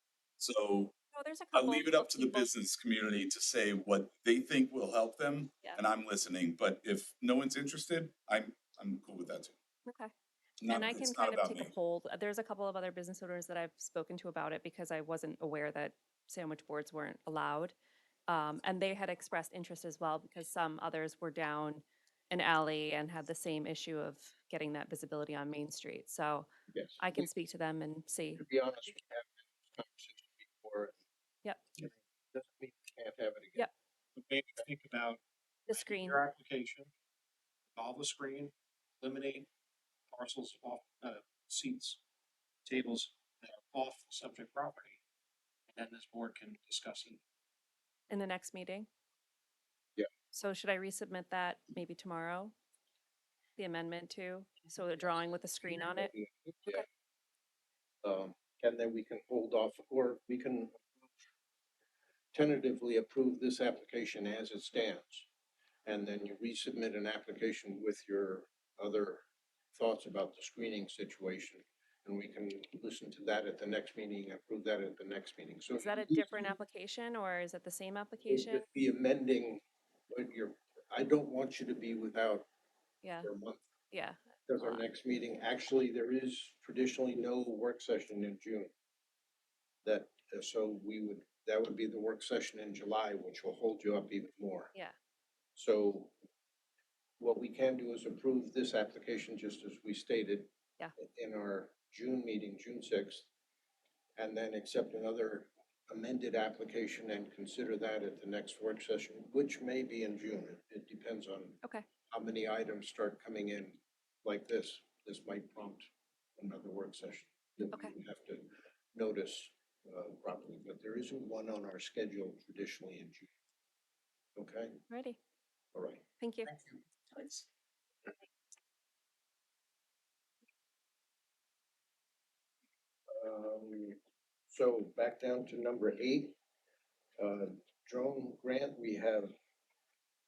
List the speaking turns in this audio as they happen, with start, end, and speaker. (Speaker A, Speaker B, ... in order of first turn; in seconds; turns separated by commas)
Speaker A: 0.4-0.9, Speaker B: 1.1-2.5, Speaker A: 1.5-9.5, Speaker B: 9.8-10.1, Speaker A: 10.6-11.7, Speaker B: 10.6-17.7, Speaker B: 18.3-28.4, Speaker C: 26.7-27.3, Speaker C: 28.3-30.9, Speaker C: 31.8-33.7, Speaker D: 34.2-36.9, Speaker B: 35.7-36.2, Speaker D: 37.7-39.5, Speaker D: 40.1-42.0, Speaker D: 42.6-45.0, Speaker D: 45.7-47.2, Speaker B: 48.1-48.9, Speaker B: 50.3-52.5, Speaker B: 53.6-56.1, Speaker C: 55.6-56.9, Speaker C: 58.0-60.9, Speaker C: 62.3-65.3, Speaker C: 65.8-69.2, Speaker C: 69.7-76.5, Speaker B: 75.8-78.7, Speaker C: 78.3-82.5, Speaker B: 83.0-83.3, Speaker C: 83.2-83.7, Speaker B: 83.9-84.8, Speaker C: 84.5-88.7, Speaker C: 89.8-94.7, Speaker C: 95.5-96.1, Speaker C: 97.2-103.3, Speaker C: 104.2-123.3, Speaker C: 124.4-124.8, Speaker B: 124.9-125.2, Speaker C: 125.7-127.4, Speaker B: 126.2-126.5, Speaker C: 133.1-134.0, Speaker C: 134.5-136.4, Speaker C: 137.2-139.3